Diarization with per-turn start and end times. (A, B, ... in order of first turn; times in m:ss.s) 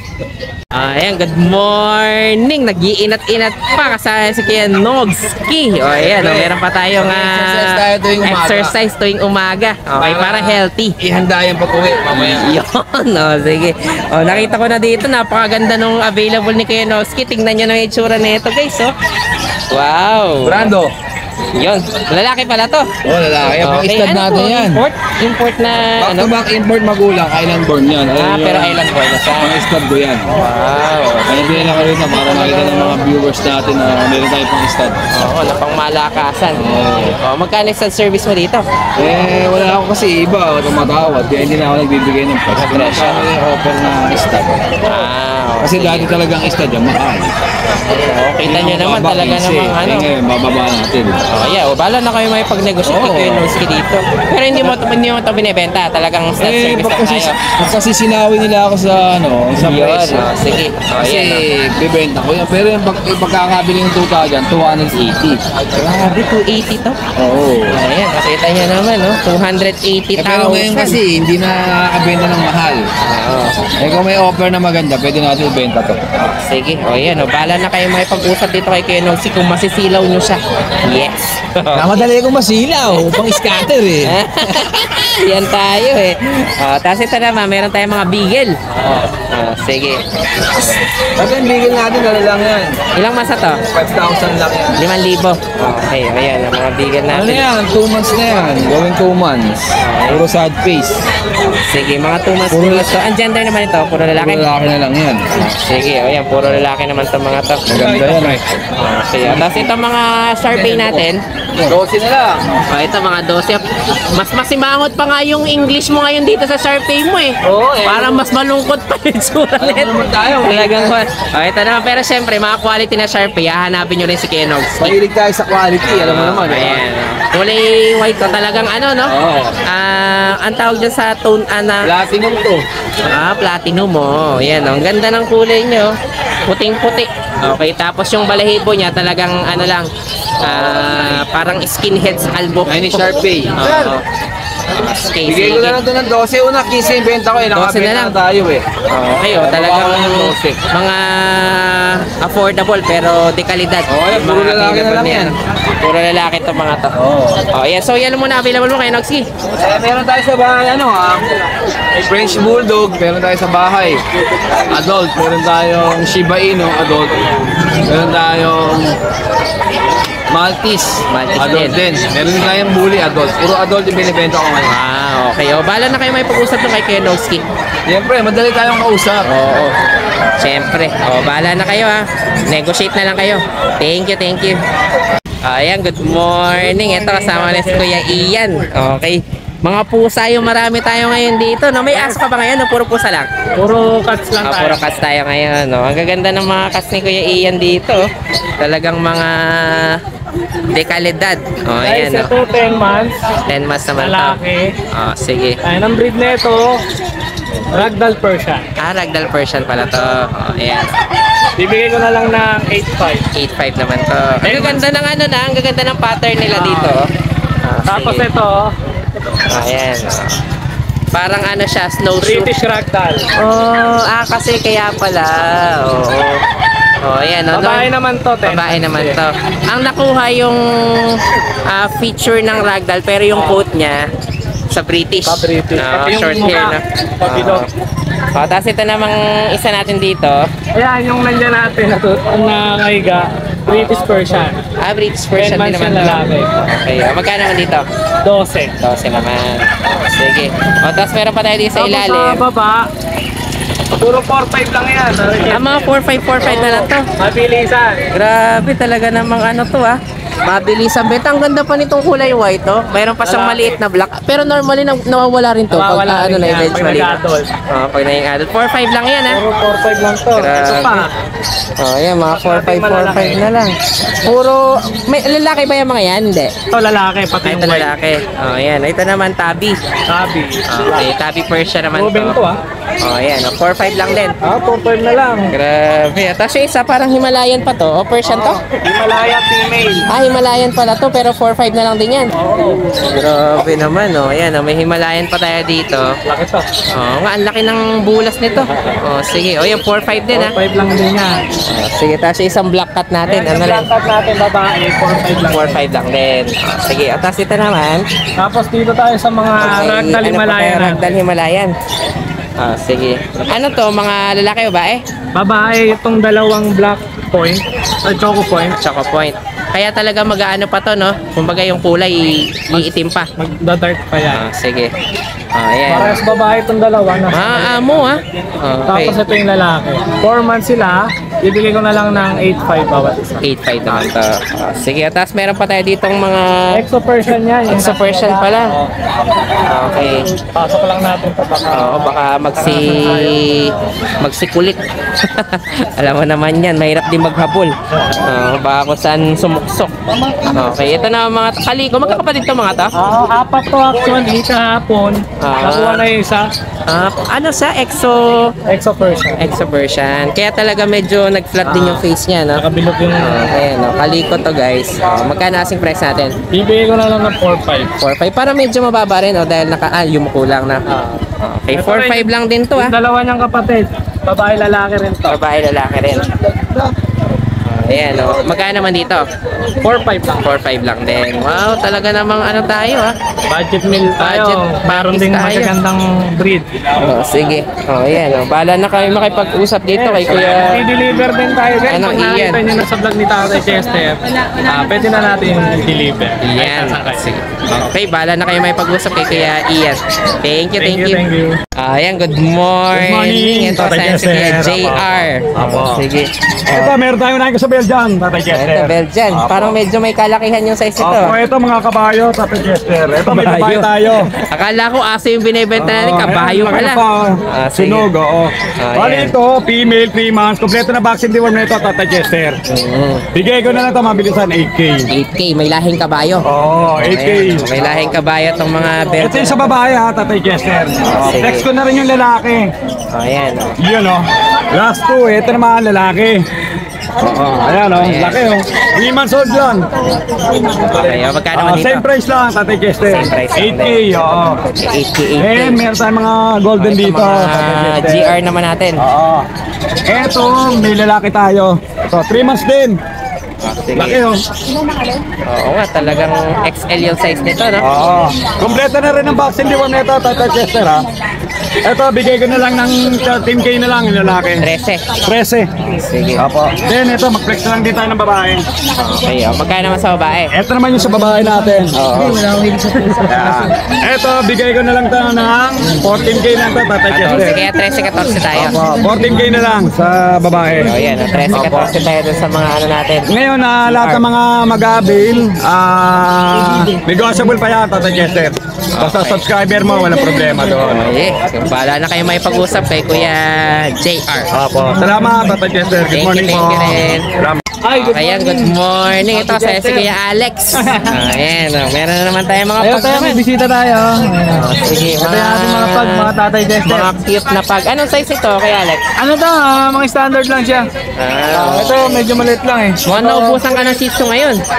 0:00.7-0:10.9 A
0:05.8-0:08.7 B
0:10.0-0:12.6 B
0:12.1-0:18.9 A
0:19.7-0:20.7 A
0:20.4-0:20.9 B
0:21.6-0:22.9 A
0:23.0-0:24.8 B
0:23.6-0:26.3 A
0:26.0-0:28.8 B
0:28.2-0:29.5 A
0:29.4-0:30.3 B
0:30.4-0:32.9 A
0:31.3-0:35.0 B
0:35.1-0:36.6 A
0:36.6-0:37.2 B
0:37.2-0:38.6 A
0:39.0-0:44.7 B
0:42.5-0:43.3 A
0:44.8-0:46.1 A
0:45.6-0:47.3 B
0:47.8-0:50.1 A
0:48.4-0:51.2 B
0:51.3-0:57.4 A
0:52.8-0:53.5 B
0:56.4-1:00.3 B
0:59.6-1:01.4 A
1:01.0-1:05.4 B
1:05.7-1:07.0 A
1:07.2-1:07.7 B
1:07.7-1:11.0 A
1:10.2-1:12.8 B
1:13.0-1:13.6 A
1:13.8-1:16.1 B
1:16.2-1:22.1 A
1:21.7-1:24.1 B
1:24.0-1:28.6 A
1:28.7-1:29.1 B
1:29.2-1:30.0 A
1:30.6-1:32.8 B
1:33.0-1:33.6 A
1:33.7-1:34.8 B
1:34.8-1:37.4 A
1:37.1-1:41.0 B
1:39.8-1:40.2 A
1:41.6-1:44.4 A
1:42.5-1:42.9 B
1:44.2-1:45.2 B
1:45.3-1:51.2 A
1:47.7-1:48.7 B
1:49.2-1:49.7 B
1:50.5-1:51.0 B
1:51.6-1:52.4 B
1:52.7-2:05.0 A
1:57.4-1:58.2 B
1:59.6-2:00.9 B
2:04.8-2:06.8 B
2:05.8-2:09.1 A
2:09.1-2:09.6 B
2:09.6-2:11.9 A
2:11.8-2:12.6 B
2:13.1-2:15.9 A
2:16.5-2:19.9 A
2:20.4-2:24.0 A
2:20.4-2:21.1 B
2:22.6-2:23.9 B
2:24.7-2:25.8 A
2:25.2-2:28.6 B
2:27.5-2:28.1 A
2:28.9-2:36.9 A
2:29.2-2:30.6 B
2:33.9-2:35.3 B
2:37.0-2:37.4 B
2:37.5-2:39.2 A
2:39.5-2:41.3 B
2:42.0-2:44.0 B
2:44.7-2:47.3 B
2:47.8-2:49.0 B
2:50.3-2:54.7 B
2:51.1-2:51.8 A
2:54.7-2:57.4 A
2:57.9-2:59.2 B
2:59.2-2:59.7 A
3:00.4-3:04.6 A
3:05.4-3:13.3 A
3:06.6-3:08.1 C
3:13.6-3:14.8 C
3:14.4-3:18.0 A
3:18.6-3:20.0 A
3:20.7-3:22.3 A
3:21.8-3:23.2 C
3:23.5-3:24.4 A
3:24.0-3:24.7 C
3:24.9-3:25.6 A
3:25.6-3:26.7 C
3:27.7-3:28.6 C
3:28.8-3:31.0 A
3:31.6-3:33.2 C
3:33.3-3:37.0 A
3:34.4-3:34.8 C
3:36.5-3:36.9 C
3:37.6-3:38.2 A
3:37.9-3:38.7 C
3:39.5-3:40.4 A
3:41.1-3:42.5 A
3:42.2-3:43.2 C
3:43.4-3:46.4 A
3:47.0-3:47.9 A
3:47.5-3:49.2 C
3:48.4-3:51.2 A
3:51.7-3:54.0 A
3:53.3-3:53.6 C
3:54.7-3:57.7 A
3:55.3-3:57.7 C
3:58.3-4:00.4 A
4:00.8-4:04.6 C
4:03.6-4:04.1 A
4:04.8-4:07.8 A
4:05.4-4:06.5 C
4:08.2-4:08.7 C
4:08.8-4:12.4 A
4:11.8-4:12.8 C
4:14.0-4:18.0 C
4:15.5-4:17.0 A
4:18.1-4:27.2 A
4:23.2-4:23.8 C
4:25.7-4:27.5 C
4:27.7-4:29.4 A
4:29.3-4:31.1 C
4:30.4-4:31.0 A
4:31.8-4:36.5 A
4:32.3-4:33.4 C
4:36.7-4:37.9 C
4:37.4-4:39.8 A
4:40.1-4:41.1 C
4:40.7-4:42.4 A
4:41.9-4:42.6 C
4:43.0-4:44.4 A
4:44.4-4:45.5 C
4:45.5-4:48.6 A
4:48.2-4:50.0 C
4:50.1-4:52.3 A
4:52.4-4:52.8 C
4:53.1-4:56.1 A
4:56.2-4:56.7 C
4:56.9-5:00.5 A
4:58.7-4:59.0 C
5:00.3-5:01.3 C
5:01.7-5:03.9 A
5:03.2-5:05.8 C
5:05.5-5:08.0 A
5:08.4-5:11.0 C
5:09.6-5:11.7 A
5:12.6-5:15.0 A
5:15.3-5:18.8 C
5:18.8-5:23.3 A
5:22.7-5:24.4 C
5:24.3-5:24.9 A
5:25.5-5:26.2 A
5:25.9-5:28.1 C
5:27.3-5:29.2 A
5:28.9-5:33.4 C
5:33.4-5:36.6 A
5:36.8-5:38.9 C
5:37.7-5:38.7 A
5:39.6-5:40.3 A
5:40.5-5:43.4 C
5:41.7-5:49.9 A
5:50.1-5:50.8 C
5:50.5-5:52.9 A
5:53.0-5:56.4 C
5:55.4-5:56.1 A
5:56.9-5:58.5 A
5:58.7-5:59.4 C
5:59.4-6:02.6 A
6:01.6-6:02.0 C
6:02.6-6:03.6 C
6:03.2-6:06.3 A
6:06.5-6:07.9 C
6:08.0-6:10.8 A
6:10.9-6:15.4 C
6:11.4-6:12.9 A
6:15.3-6:16.3 A
6:17.6-6:19.2 A
6:19.8-6:20.4 C
6:20.4-6:23.1 A
6:23.5-6:26.7 C
6:24.2-6:25.7 A
6:27.0-6:30.8 A
6:29.9-6:37.2 C
6:31.9-6:32.6 A
6:36.4-6:41.2 A
6:40.8-6:41.6 C
6:41.8-6:46.8 A
6:42.9-6:45.2 D
6:45.5-6:46.0 C
6:46.7-6:49.7 D
6:48.5-6:51.4 A
6:51.0-6:54.3 D
6:53.2-6:53.9 A
6:54.4-6:58.1 A
6:55.8-7:02.6 D
6:58.8-6:59.3 A
7:02.7-7:03.2 A
7:03.3-7:05.1 D
7:05.1-7:06.4 A
7:06.4-7:07.8 D
7:07.0-7:09.7 A
7:09.2-7:12.7 D
7:11.1-7:11.7 A
7:13.1-7:13.8 A
7:13.8-7:16.4 D
7:17.2-7:19.8 D
7:17.9-7:18.5 A
7:20.6-7:24.6 D
7:20.9-7:22.0 A
7:23.0-7:25.8 A
7:25.4-7:28.4 D
7:26.8-7:29.0 A
7:29.0-7:29.4 D
7:30.1-7:33.0 D
7:33.6-7:34.2 A
7:33.9-7:34.4 D
7:35.4-7:37.8 A
7:37.8-7:41.0 D
7:41.8-7:44.6 D
7:44.6-7:45.1 A
7:45.2-7:45.7 D
7:45.8-7:46.4 A
7:46.4-7:48.6 D
7:49.0-7:50.5 A
7:50.5-7:52.0 D
7:51.9-7:52.5 A
7:52.4-7:53.1 C
7:53.2-7:57.7 D
7:53.4-7:53.7 A
7:57.1-7:58.8 A
7:58.5-8:01.9 D
8:00.8-8:03.3 A
8:03.3-8:11.2 D
8:09.0-8:09.4 A
8:10.8-8:14.5 A
8:14.6-8:17.6 D
8:14.7-8:15.1 C
8:16.1-8:17.3 A
8:17.8-8:18.7 C
8:17.9-8:23.4 A
8:19.2-8:20.1 C
8:20.8-8:21.2 C
8:22.8-8:24.6 C
8:24.5-8:26.3 A
8:25.2-8:27.1 C
8:26.8-8:29.1 A
8:29.2-8:30.8 C
8:31.2-8:32.3 A
8:31.5-8:34.0 C
8:33.0-8:34.6 A